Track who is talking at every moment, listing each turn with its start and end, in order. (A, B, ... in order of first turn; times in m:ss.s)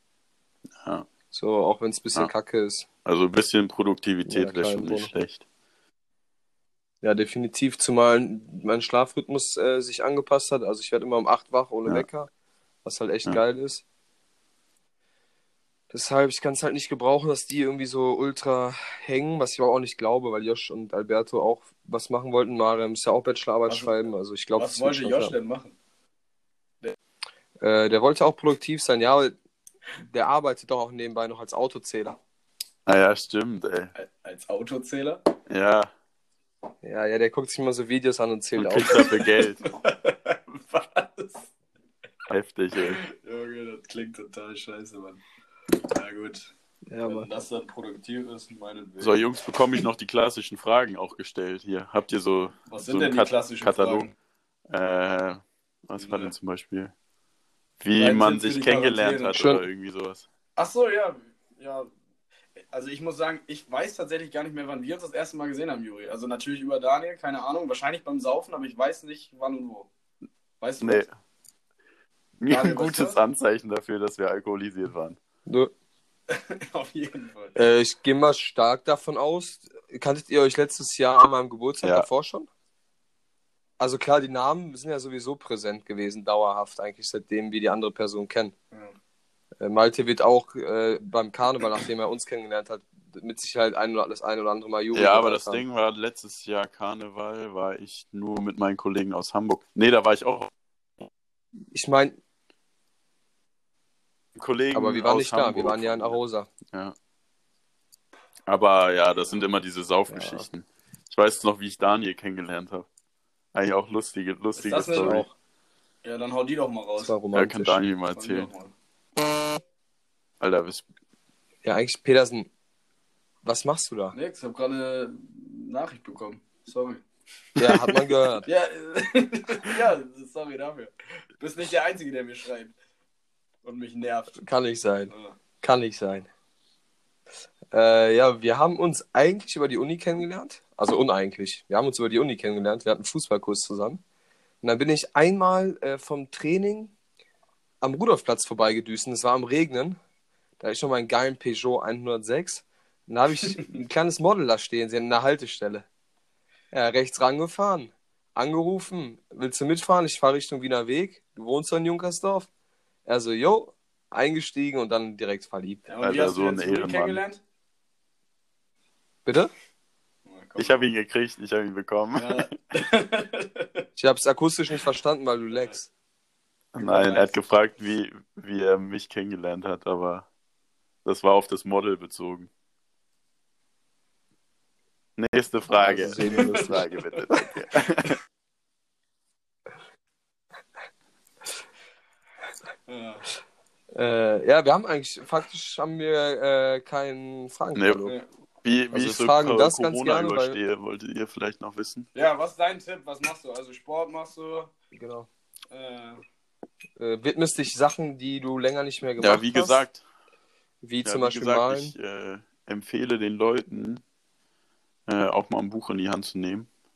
0:00.8-0:01.1 A
0:01.3-0:02.9 B
0:03.0-0:05.4 A
0:04.2-0:05.1 B
0:07.0-0:12.3 B
0:12.8-0:13.8 B
0:15.9-0:25.3 B
0:23.7-0:24.0 C
0:24.6-0:25.7 C
0:27.6-0:29.3 B
0:30.0-0:32.2 B
0:32.8-0:33.9 A
0:33.9-0:35.3 C
0:35.5-0:35.9 A
0:36.8-0:39.1 B
0:38.6-0:39.6 A
0:38.9-0:41.5 C
0:42.3-0:43.0 A
0:42.8-0:45.2 C
0:45.8-0:46.5 C
0:46.9-0:47.3 B
0:47.0-0:49.3 C
0:49.0-0:54.1 A
0:52.7-0:54.1 C
0:54.7-0:56.9 A
0:56.0-0:56.3 C
0:57.8-1:00.2 A
0:58.0-0:59.4 C
0:59.4-0:59.6 B
1:00.6-1:01.9 C
1:02.7-1:09.9 C
1:10.6-1:11.0 C
1:10.8-1:11.1 A
1:12.4-1:15.2 A
1:12.5-1:13.2 C
1:15.4-1:15.7 B
1:16.3-1:17.6 C
1:17.6-1:22.5 B
1:21.8-1:22.1 A
1:23.8-1:28.5 B
1:29.6-1:35.6 B
1:34.9-1:41.1 A
1:41.7-1:42.2 B
1:44.3-1:46.2 A
1:44.7-1:46.5 B
1:46.7-1:47.0 A
1:48.5-1:52.9 A
1:50.1-1:50.4 B
1:53.5-1:55.2 A
1:54.6-1:55.2 C
1:54.9-1:55.3 B
1:56.0-1:57.1 C
1:57.0-1:57.8 B
1:57.3-1:58.5 A
1:58.1-1:58.7 C
2:00.4-2:00.8 A
2:01.6-2:02.5 B
2:03.4-2:04.2 B
2:04.1-2:07.0 C
2:07.6-2:08.5 B
2:08.4-2:12.7 C
2:13.6-2:14.4 C
2:14.4-2:16.3 B
2:15.1-2:15.4 C
2:17.7-2:24.0 B
2:24.6-2:26.9 B
2:27.8-2:30.0 B
2:30.6-2:35.8 B
2:36.7-2:42.5 B
2:43.0-2:45.8 B
2:45.9-2:47.4 C
2:46.0-2:47.2 A
2:49.2-2:49.5 B
2:50.2-2:50.8 C
2:50.6-2:52.5 A
2:52.2-2:53.8 C
2:54.0-2:55.9 B
2:56.7-3:00.3 A
2:56.8-2:57.3 C
3:01.0-3:02.5 A
3:05.2-3:08.2 A
3:05.8-3:06.8 B
3:06.3-3:07.2 C
3:12.9-3:13.2 C
3:13.9-3:18.1 B
3:17.7-3:18.1 A
3:18.6-3:22.1 A
3:18.9-3:20.6 B
3:22.1-3:24.7 C
3:24.9-3:25.3 B
3:25.7-3:26.2 C
3:27.0-3:29.8 B
3:29.2-3:30.0 A
3:30.8-3:31.9 B
3:31.0-3:34.0 A
3:35.1-3:36.7 A